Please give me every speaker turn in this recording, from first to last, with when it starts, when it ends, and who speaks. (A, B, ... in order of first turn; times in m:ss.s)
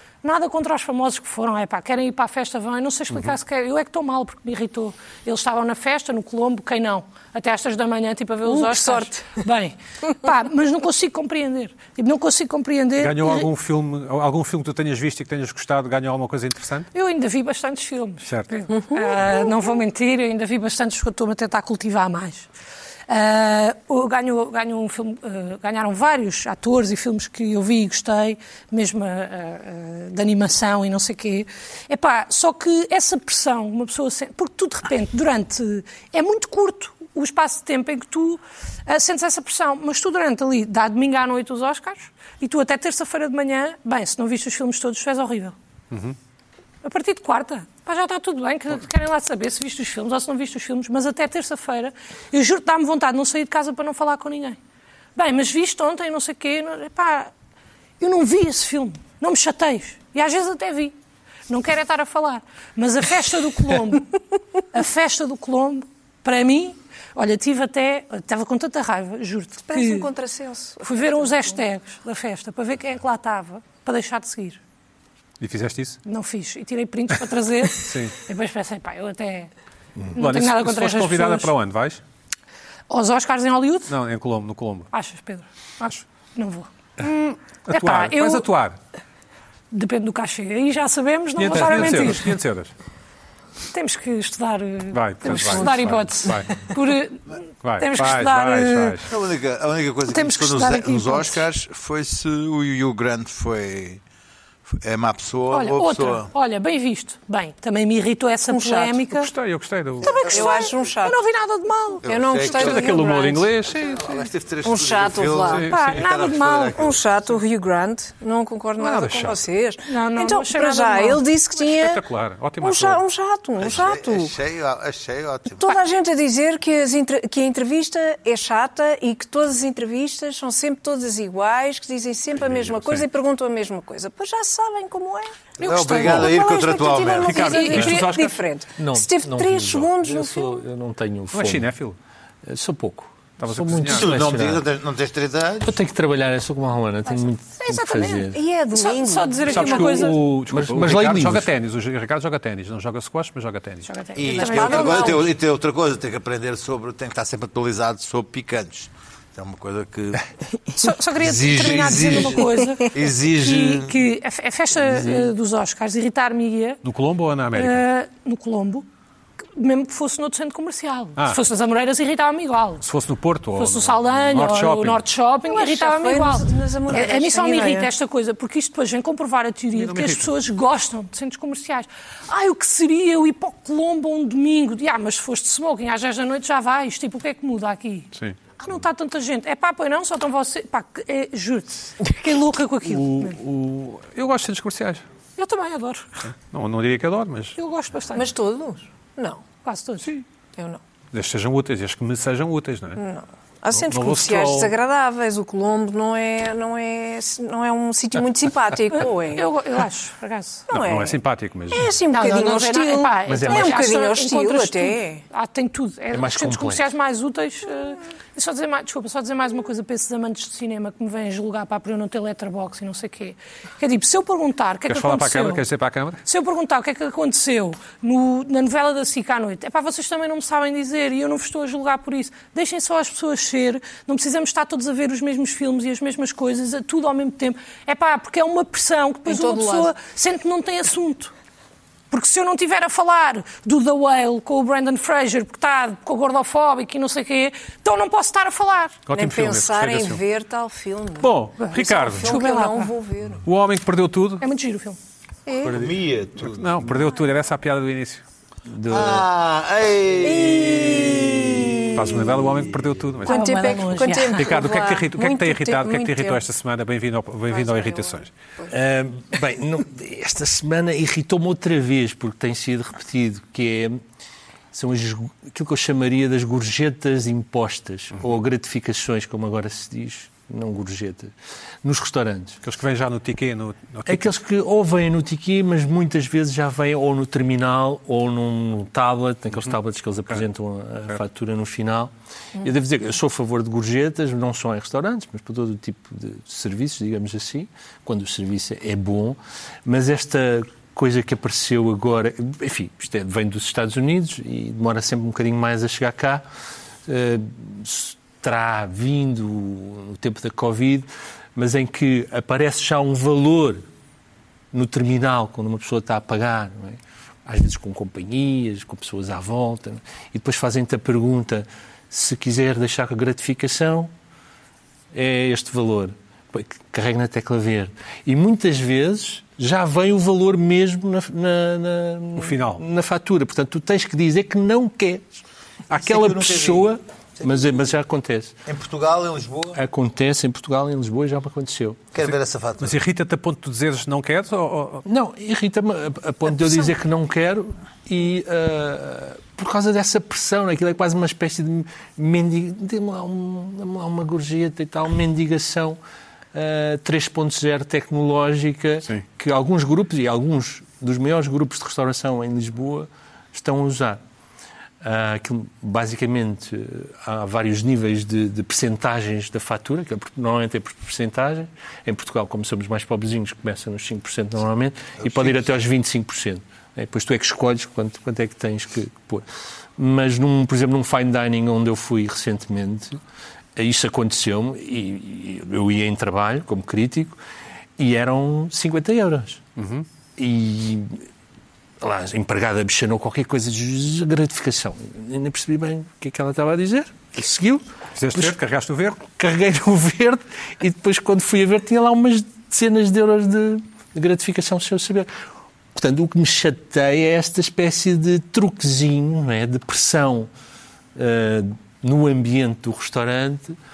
0:00.2-0:13.5 A
0:08.4-0:09.4 B
0:13.0-0:16.9 C
0:16.9-0:22.5 A
0:18.2-0:18.6 C
0:18.7-0:19.4 B
0:23.1-0:45.6 A
0:46.8-0:54.6 A
0:55.2-0:57.3 A
0:58.0-1:01.0 A
1:01.5-1:04.2 A
1:04.7-1:10.1 A
1:09.6-1:11.6 B
1:10.8-1:14.6 A
1:15.4-1:16.0 C
1:16.0-1:19.5 A
1:17.8-1:18.2 C
1:20.1-1:21.5 A
1:20.2-1:22.0 C
1:22.9-1:23.9 A
1:23.9-1:24.9 C
1:24.9-1:27.1 A
1:27.0-1:28.8 C
1:27.7-1:28.5 A
1:29.7-1:32.4 A
1:31.4-1:32.7 C
1:33.7-1:39.0 A
1:34.9-1:36.5 C
1:35.4-1:35.7 B
1:37.6-1:39.1 C
1:39.0-1:44.0 D
1:40.1-1:41.4 A
1:44.7-1:46.3 D
1:45.5-1:49.3 A
1:48.5-1:49.0 B
1:49.2-1:50.2 C
1:50.0-1:52.0 A
1:50.0-1:51.2 B
1:52.0-1:53.1 D
1:52.0-1:53.5 B
1:52.4-1:54.3 C
1:53.7-1:57.1 D
1:54.6-1:55.7 B
1:55.4-1:56.0 C
1:55.7-1:56.8 A
1:56.7-2:02.0 B
1:58.8-1:59.5 C
1:59.9-2:01.3 A
2:01.6-2:03.0 C
2:02.6-2:04.3 B
2:03.6-2:05.8 D
2:05.6-2:20.6 B
2:12.4-2:13.0 C
2:15.6-2:16.4 A
2:15.6-2:17.5 D
2:17.2-2:18.1 C
2:17.3-2:18.3 A
2:17.7-2:21.7 E
2:21.3-2:22.0 C
2:22.5-2:24.7 E
2:23.4-2:24.2 C
2:23.9-2:25.8 D
2:25.6-2:28.4 E
2:27.6-2:30.2 A
2:28.3-2:30.1 B
2:29.5-2:33.9 C
2:29.6-2:31.5 E
2:33.9-2:35.3 A
2:34.2-2:40.2 D
2:34.3-2:35.3 B
2:40.7-2:46.8 A
2:41.2-2:44.0 D
2:46.8-2:47.8 C
2:47.5-2:48.9 A
2:49.6-2:52.8 A
2:52.8-2:55.0 C
2:53.6-3:13.4 A
2:55.5-2:57.9 B
2:59.8-3:00.3 C
3:12.8-3:15.0 C
3:15.4-3:16.2 A
3:16.2-3:17.6 C
3:17.6-3:18.3 A
3:18.1-3:19.4 B
3:19.6-3:20.1 A
3:20.6-3:20.8 B
3:21.1-3:23.0 C
3:23.0-3:29.5 B
3:23.7-3:24.7 C
3:28.9-3:30.6 A
3:30.7-3:31.2 B
3:30.7-3:31.9 C
3:31.7-3:35.2 B
3:32.1-3:45.6 A
3:33.3-3:33.9 E
3:36.1-3:36.9 E
3:44.9-3:46.2 C
3:46.2-4:01.3 A
3:59.3-3:59.9 B
4:02.1-4:09.0 A
4:09.1-4:10.2 C
4:09.1-4:13.4 B
4:11.2-4:12.4 C
4:11.6-4:12.9 A
4:13.4-4:14.4 C
4:14.4-4:15.0 A
4:15.5-4:15.9 B
4:15.6-4:17.0 D
4:16.4-4:18.2 C
4:18.7-4:19.3 E
4:18.9-4:22.2 D
4:20.2-4:22.3 B
4:22.0-4:23.5 C
4:23.2-4:26.4 B
4:23.3-4:24.6 A
4:24.3-4:28.3 C
4:27.5-4:28.7 B
4:28.7-4:34.0 E
4:34.7-4:41.3 E
4:41.8-4:42.6 E
4:42.6-4:44.3 C
4:44.1-5:06.4 E
5:07.1-5:13.8 E
5:14.7-5:24.1 E
5:25.1-5:38.5 E
5:32.4-5:32.8 C
5:35.9-5:37.9 D
5:38.7-5:39.8 D
5:39.8-5:42.0 E
5:42.1-5:43.0 D
5:42.2-5:45.0 C
5:45.1-5:56.0 E
5:56.5-6:04.2 E
6:05.0-6:19.4 E
6:15.2-6:15.6 D
6:20.0-6:23.2 E
6:23.8-6:27.4 E
6:28.0-6:29.6 E
6:29.8-6:30.1 C
6:30.4-6:31.2 E
6:32.0-6:38.6 E
6:38.2-6:39.3 C
6:39.2-6:45.3 E
6:46.0-6:50.5 E
6:51.2-6:53.8 E